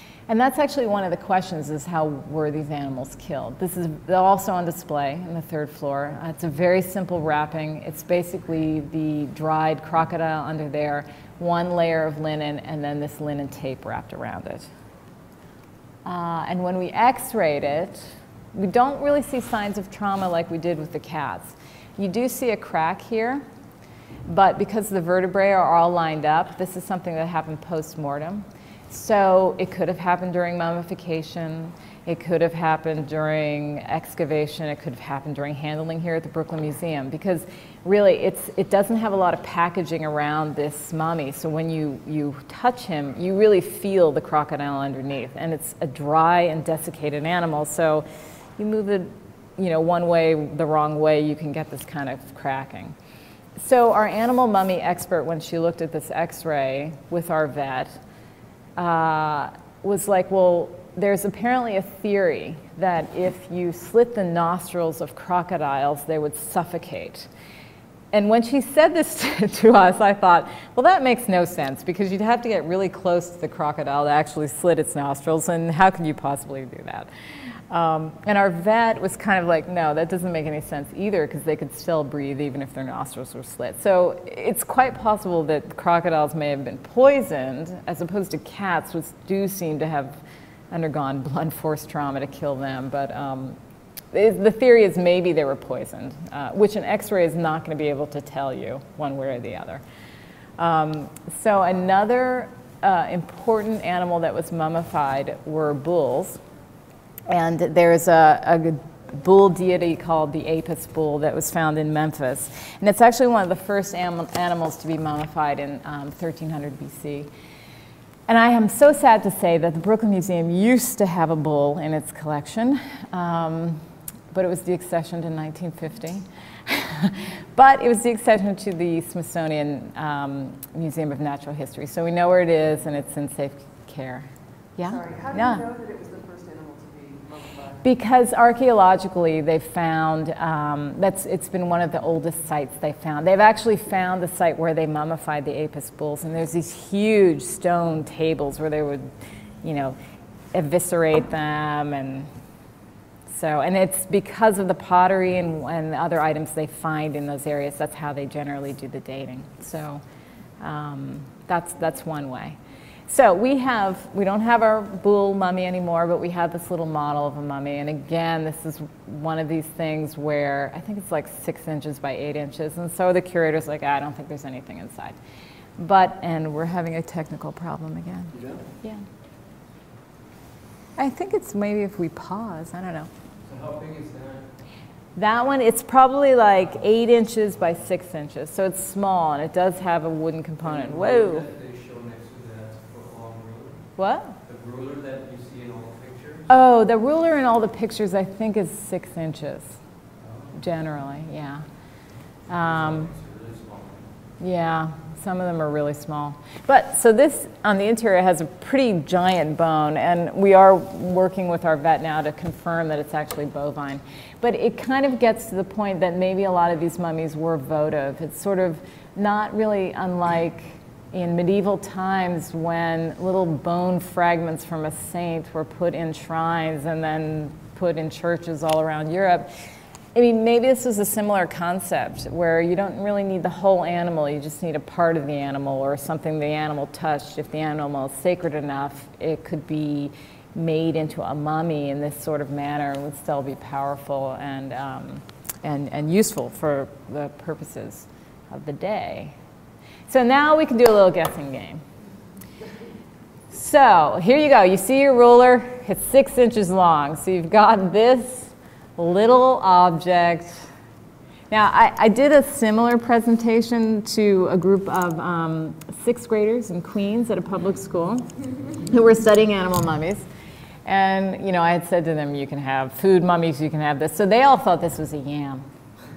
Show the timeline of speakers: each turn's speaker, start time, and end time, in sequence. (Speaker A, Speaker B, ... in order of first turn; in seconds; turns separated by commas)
Speaker A: 0.3-14.7, Speaker A: 16.0-23.4, Speaker A: 24.3-48.0, Speaker A: 48.6-52.9, Speaker A: 53.6-58.0, Speaker A: 58.8-67.3, Speaker A: 68.1-77.1, Speaker A: 77.7-90.2, Speaker A: 90.7-93.6, Speaker A: 94.1-99.8, Speaker A: 100.6-106.4, Speaker A: 107.3-117.3, Speaker A: 118.3-123.8, Speaker A: 124.3-135.7, Speaker B: 134.8-137.8, Speaker A: 137.8-149.1, Speaker A: 149.6-149.9, Speaker A: 150.5-152.3, Speaker A: 153.3-160.0, Speaker A: 160.6-162.6, Speaker A: 163.1-175.2, Speaker A: 175.8-179.0, Speaker C: 178.3-178.6, Speaker A: 181.0-183.1, Speaker C: 183.4-184.5, Speaker A: 185.2-191.4, Speaker C: 190.6-193.8, Speaker A: 194.0-194.3, Speaker C: 194.4-196.4, Speaker A: 196.5-199.8, Speaker C: 200.2-200.6, Speaker A: 200.6-201.6, Speaker A: 202.5-203.1, Speaker C: 202.5-204.1, Speaker A: 204.4-229.5, Speaker A: 230.1-249.3, Speaker A: 250.1-251.8, Speaker A: 253.5-260.7, Speaker A: 261.5-268.2, Speaker A: 268.9-270.2, Speaker A: 270.8-275.6